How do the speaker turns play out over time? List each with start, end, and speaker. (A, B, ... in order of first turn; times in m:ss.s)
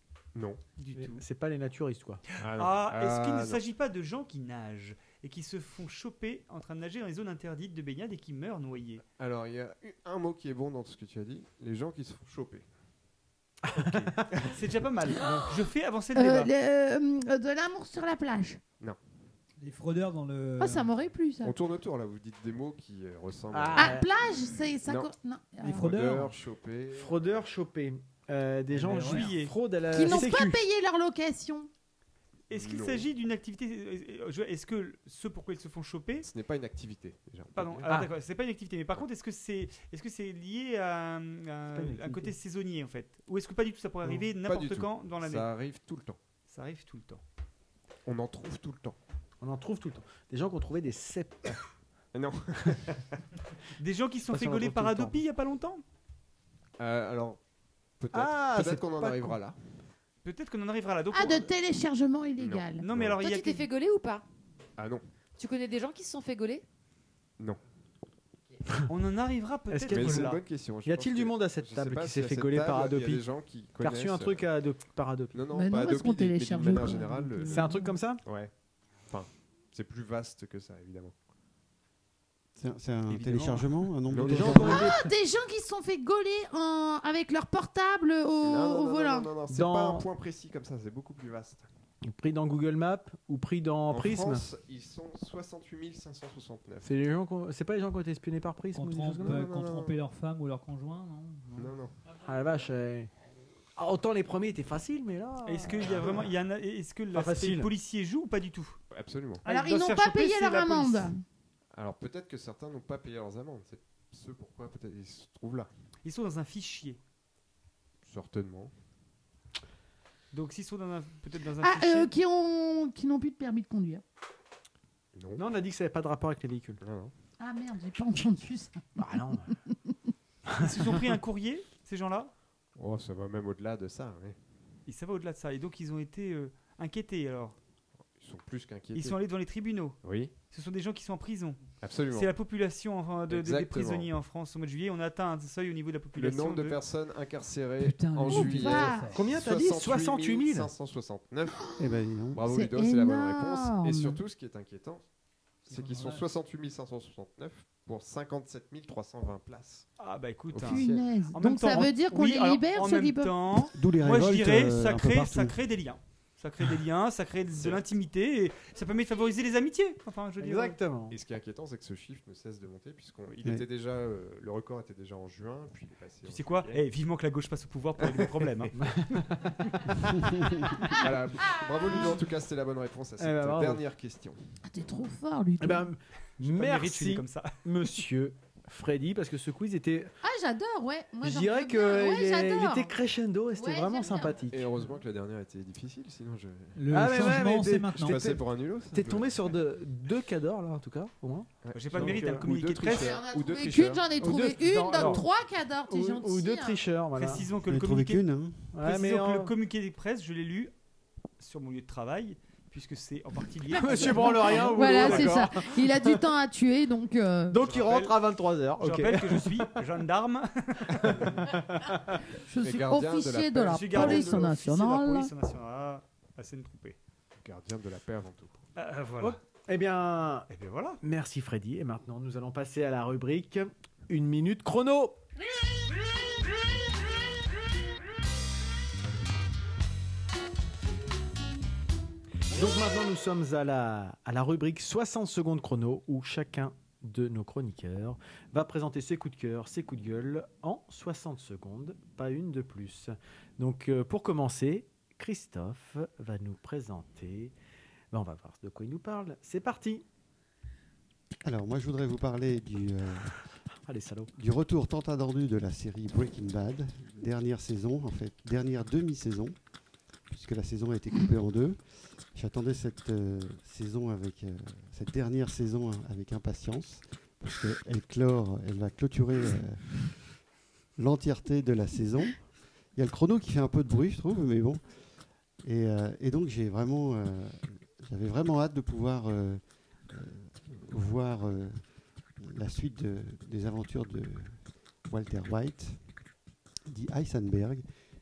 0:00.3-0:00.6 A
0:00.8-0:01.2 B
0:01.0-0:02.2 C
0:02.3-0:09.0 B
0:02.4-0:03.6 A
0:09.2-0:12.7 A
0:13.6-0:14.2 C
0:13.7-0:14.6 A
0:14.4-0:16.5 B
0:16.1-0:18.6 D
0:19.6-0:20.9 E
0:20.6-0:21.5 D
0:21.4-0:24.0 A
0:23.5-0:24.1 C
0:23.8-0:25.9 D
0:24.8-0:25.1 A
0:25.6-0:26.3 E
0:25.7-0:27.5 A
0:26.9-0:30.6 C
0:28.7-0:29.3 E
0:29.0-0:29.5 B
0:29.9-0:31.7 D
0:32.5-0:36.3 B
0:32.5-0:33.1 A
0:36.2-0:37.9 A
0:37.5-0:45.5 B
0:41.7-0:42.4 C
0:44.1-0:46.2 A
0:46.5-0:47.2 B
0:48.1-0:49.0 A
0:49.4-0:51.6 C
0:52.1-0:53.2 A
0:53.8-0:55.8 B
0:54.3-0:55.2 C
0:56.8-0:57.4 A
0:58.0-0:59.6 A
0:58.1-0:59.4 C
1:00.2-1:01.5 B
1:01.1-1:02.9 D
1:02.4-1:03.2 A
1:02.8-1:03.7 B
1:03.2-1:04.2 F
1:04.8-1:05.0 A
1:05.4-1:06.6 F
1:08.9-1:10.4 B
1:09.7-1:13.3 C
1:09.9-1:14.4 A
1:13.8-1:15.4 C
1:15.3-1:18.5 A
1:15.5-1:17.9 D
1:17.5-1:18.2 C
1:19.1-1:21.2 A
1:22.6-1:24.9 G
1:23.2-1:23.6 C
1:23.5-1:24.9 A
1:24.2-1:25.1 C
1:24.4-1:29.3 D
1:28.4-1:31.7 A
1:29.5-1:30.1 C
1:32.0-1:34.4 C
1:33.9-1:36.9 A
1:36.8-1:39.4 C
1:38.8-1:41.7 E
1:39.2-1:40.0 A
1:41.6-1:41.9 A
1:42.2-1:43.1 C
1:43.8-1:46.1 C
1:45.4-1:48.8 B
1:46.0-1:46.2 A
1:47.1-1:47.7 C
1:48.9-1:49.4 A
1:49.4-1:51.1 B
1:49.4-1:51.2 D
1:51.7-1:55.7 A
1:56.0-1:57.0 B
1:58.0-1:58.7 A
2:00.3-2:02.1 B
2:01.6-2:04.0 D
2:05.2-2:05.4 A
2:05.4-2:06.8 C
2:06.8-2:07.1 A
2:07.4-2:09.0 D
2:09.0-2:09.5 C
2:10.5-2:11.0 C
2:10.6-2:12.3 B
2:12.8-2:14.4 A
2:14.9-2:17.6 B
2:18.2-2:19.2 A
2:18.9-2:26.8 B
2:20.0-2:20.4 A
2:21.8-2:22.4 A
2:23.3-2:24.1 A
2:26.2-2:31.8 A
2:27.8-2:29.2 E
2:28.3-2:29.1 D
2:29.1-2:30.7 C
2:31.8-2:32.4 G
2:32.3-2:35.0 A
2:32.5-2:34.2 D
2:35.7-2:36.2 E
2:35.7-2:39.9 A
2:40.0-2:50.8 B
2:40.5-2:41.0 A
2:40.6-2:43.7 D
2:43.7-2:45.6 G
2:47.6-2:47.8 A
2:50.4-2:51.2 C
2:51.1-2:56.8 A
2:56.2-2:58.8 B
2:58.0-2:58.7 A
2:58.8-2:59.6 C
3:00.8-3:04.4 A
3:03.2-3:03.8 C
3:04.7-3:05.9 D
3:05.6-3:10.1 C
3:06.4-3:07.6 B
3:10.2-3:12.9 D
3:11.2-3:14.7 C
3:13.6-3:14.4 D
3:14.5-3:17.0 A
3:16.8-3:18.2 E
3:16.9-3:22.4 C
3:18.0-3:19.5 A
3:21.6-3:24.0 A
3:21.7-3:23.2 B
3:22.9-3:26.8 D
3:24.2-3:25.3 C
3:24.9-3:25.2 B
3:25.9-3:27.4 C
3:27.2-3:28.3 B
3:27.6-3:28.8 G
3:28.7-3:29.5 C
3:28.8-3:30.7 B
3:31.4-3:35.4 B
3:33.7-3:36.2 C
3:34.0-3:37.6 D
3:37.5-3:39.8 C
3:37.7-3:38.2 B
3:38.8-3:41.5 B
3:40.9-3:42.0 C
3:42.4-3:45.3 D
3:42.5-3:44.5 A
3:43.7-3:47.0 B
3:47.4-3:48.7 A
3:48.8-3:49.4 B
3:49.2-3:55.2 C
3:50.5-3:51.0 B
4:02.5-4:17.6 C
4:18.1-4:20.0 C
4:21.4-4:23.3 G
4:23.7-4:24.3 C
4:24.4-4:29.6 G
4:30.3-4:40.2 G
4:41.0-4:44.8 G
4:45.6-4:56.0 G
4:56.9-4:57.8 G